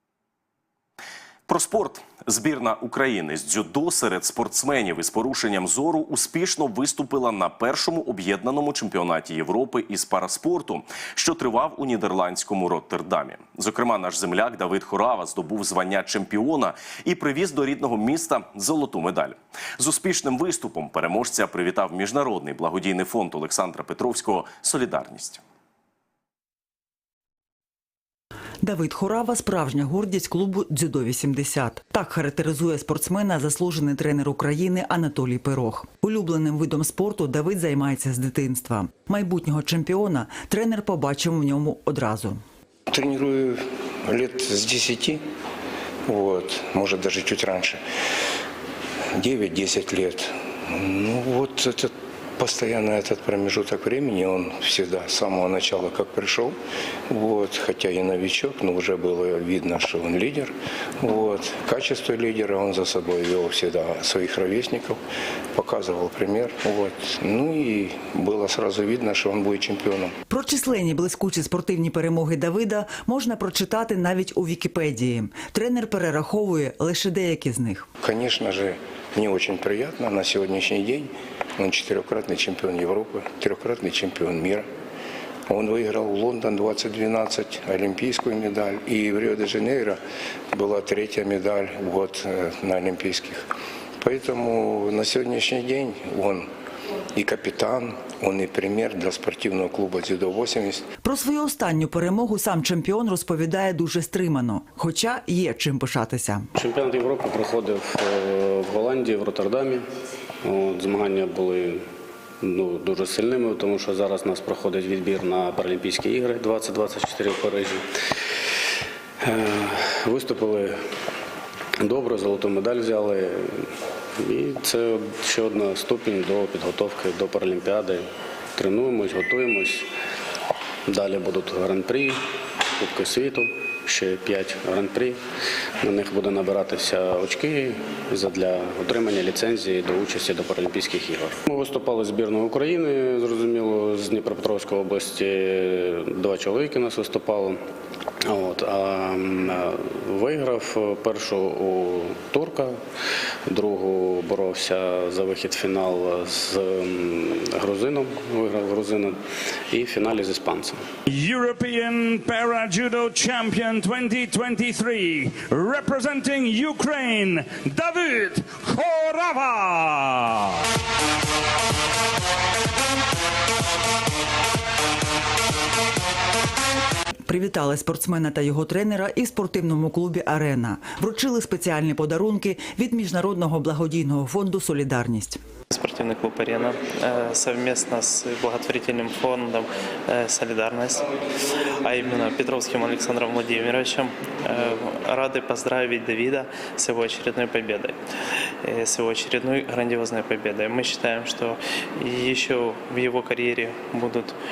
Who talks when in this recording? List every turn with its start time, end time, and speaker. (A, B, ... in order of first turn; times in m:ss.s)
0:01.5-0:25.4 A
0:28.6-0:42.4 B
0:42.9-0:45.2 C
0:46.1-0:47.8 C
0:49.2-0:56.6 C
0:57.1-1:05.0 C
1:05.6-1:10.2 C
1:10.3-1:17.9 B
1:18.0-1:24.7 C
1:25.5-1:30.0 C
1:30.5-1:33.4 C
1:34.0-1:36.5 C
1:37.2-1:40.8 C
1:41.0-1:46.5 B
1:46.6-1:49.9 D
1:50.4-1:51.9 D
1:52.4-1:57.9 D
1:59.2-2:00.8 D
2:01.8-2:09.9 D
2:10.9-2:12.2 D
2:12.8-2:15.2 D
2:15.8-2:27.6 D
2:28.2-2:32.8 D
2:33.5-2:40.9 D
2:41.1-2:50.6 E
2:57.3-3:05.4 B
3:05.7-3:11.1 F
3:11.8-3:18.0 F
3:18.6-3:24.4 F